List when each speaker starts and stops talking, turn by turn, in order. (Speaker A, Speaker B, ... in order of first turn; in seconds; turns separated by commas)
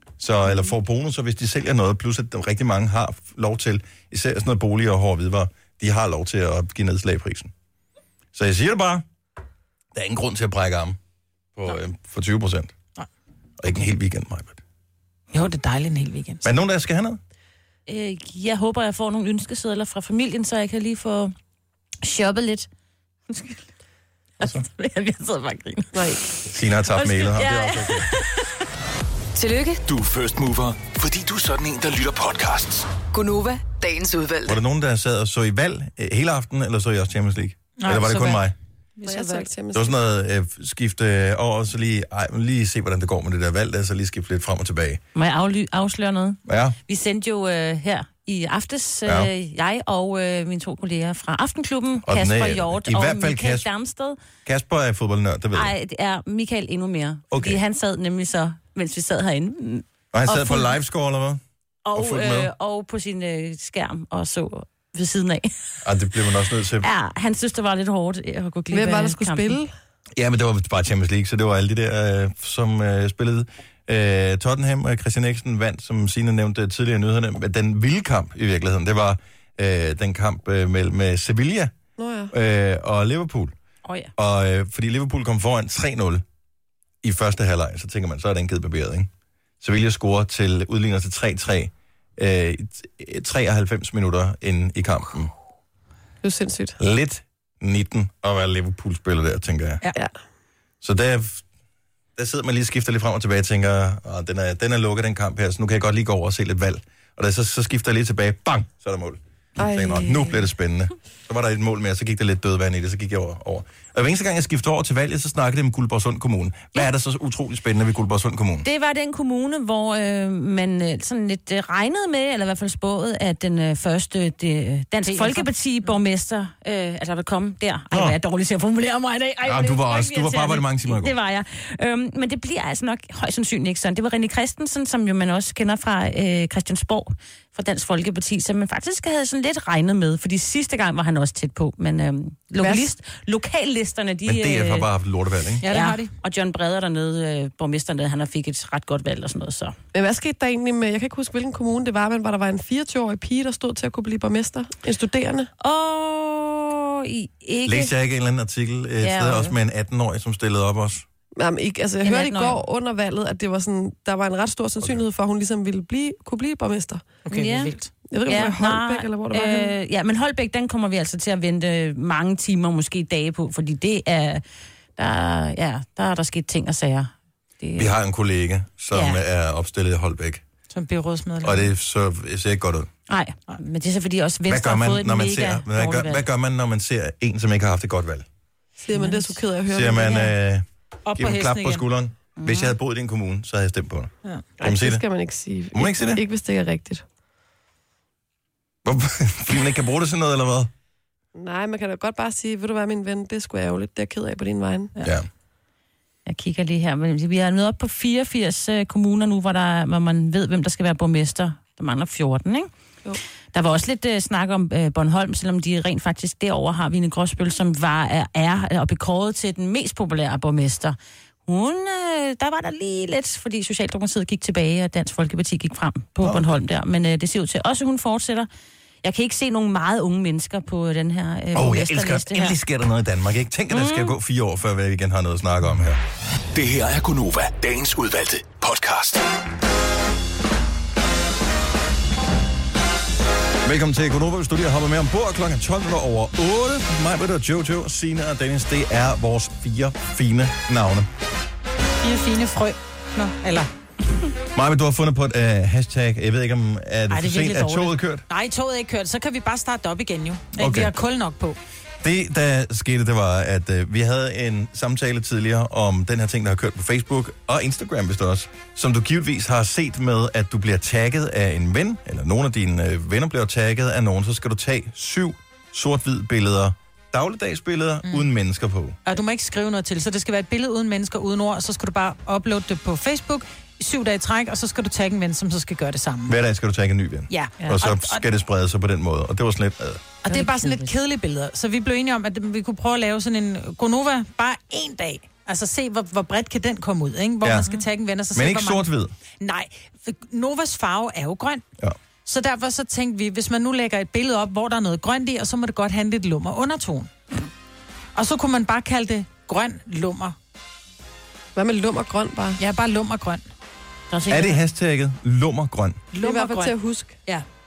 Speaker A: 0.2-7.5, Speaker A: 8.3-9.1, Speaker A: 9.9-11.0, Speaker A: 11.6-12.7, Speaker A: 13.6-14.6, Speaker B: 15.3-16.4, Speaker A: 16.4-17.2, Speaker C: 17.9-21.3, Speaker C: 22.0-22.7, Speaker C: 23.3-23.6, Speaker C: 24.4-28.4, Speaker D: 25.9-26.2, Speaker A: 26.5-28.1, Speaker E: 29.4-29.8, Speaker F: 29.9-32.9, Speaker E: 33.1-34.6, Speaker A: 34.5-38.5, Speaker B: 37.8-38.4, Speaker B: 39.0-39.5, Speaker D: 39.0-40.0, Speaker A: 39.7-45.0, Speaker C: 45.1-54.2, Speaker A: 46.5-46.8, Speaker A: 52.0-53.7, Speaker A: 54.5-55.7, Speaker C: 55.5-59.9, Speaker A: 57.3-57.6, Speaker A: 60.1-61.4, Speaker C: 61.9-65.5, Speaker A: 61.9-62.5, Speaker A: 65.8-66.9, Speaker C: 66.8-69.6, Speaker D: 68.7-69.7, Speaker A: 70.2-81.7, Speaker D: 82.0-82.3, Speaker A: 82.3-83.5, Speaker C: 83.8-84.1, Speaker A: 84.2-86.2, Speaker A: 87.0-89.1, Speaker A: 89.6-95.3, Speaker D: 96.2-96.8, Speaker A: 96.8-99.8, Speaker A: 100.8-101.4, Speaker A: 102.2-118.7, Speaker D: 109.6-110.4, Speaker C: 118.6-144.9, Speaker B: 125.1-125.5, Speaker A: 127.9-128.2, Speaker A: 129.4-131.2, Speaker D: 142.6-142.9, Speaker A: 144.2-145.6, Speaker B: 145.6-146.1, Speaker C: 145.7-149.8, Speaker D: 149.9-155.5, Speaker C: 155.6-157.9, Speaker A: 157.7-161.1, Speaker C: 159.0-159.5, Speaker D: 161.4-167.1, Speaker C: 162.0-162.6, Speaker B: 167.2-167.9, Speaker C: 167.3-174.4, Speaker D: 168.1-169.7, Speaker C: 175.0-177.9, Speaker A: 177.8-180.4, Speaker C: 178.9-179.2, Speaker B: 180.7-181.7, Speaker A: 181.4-182.9, Speaker C: 183.1-186.2, Speaker A: 184.5-188.3, Speaker D: 188.8-190.3, Speaker B: 188.9-189.4, Speaker A: 189.7-195.0, Speaker B: 191.1-191.9, Speaker C: 192.4-192.8, Speaker D: 194.6-197.0, Speaker A: 195.7-196.2, Speaker A: 198.8-200.7, Speaker D: 201.4-204.9, Speaker A: 205.0-205.3, Speaker C: 206.3-212.7, Speaker C: 213.5-228.5, Speaker A: 226.2-226.6, Speaker C: 229.0-232.6, Speaker A: 231.5-236.0, Speaker C: 233.7-234.2, Speaker F: 236.5-239.2, Speaker A: 243.6-251.1, Speaker B: 252.0-253.7, Speaker A: 254.6-258.2, Speaker C: 257.1-257.7, Speaker B: 257.4-261.6, Speaker A: 260.6-260.9, Speaker A: 262.0-279.0, Speaker B: 279.1-286.4, Speaker A: 286.3-290.0, Speaker B: 287.3-288.2, Speaker B: 290.2-298.9, Speaker C: 290.3-290.9, Speaker A: 297.4-297.7, Speaker A: 298.3-299.1, Speaker B: 299.4-301.6, Speaker B: 302.3-307.1, Speaker B: 308.1-310.4, Speaker D: 311.6-312.6, Speaker B: 312.6-313.4, Speaker C: 314.1-314.6, Speaker A: 314.3-316.0, Speaker B: 316.1-317.5, Speaker D: 316.2-317.2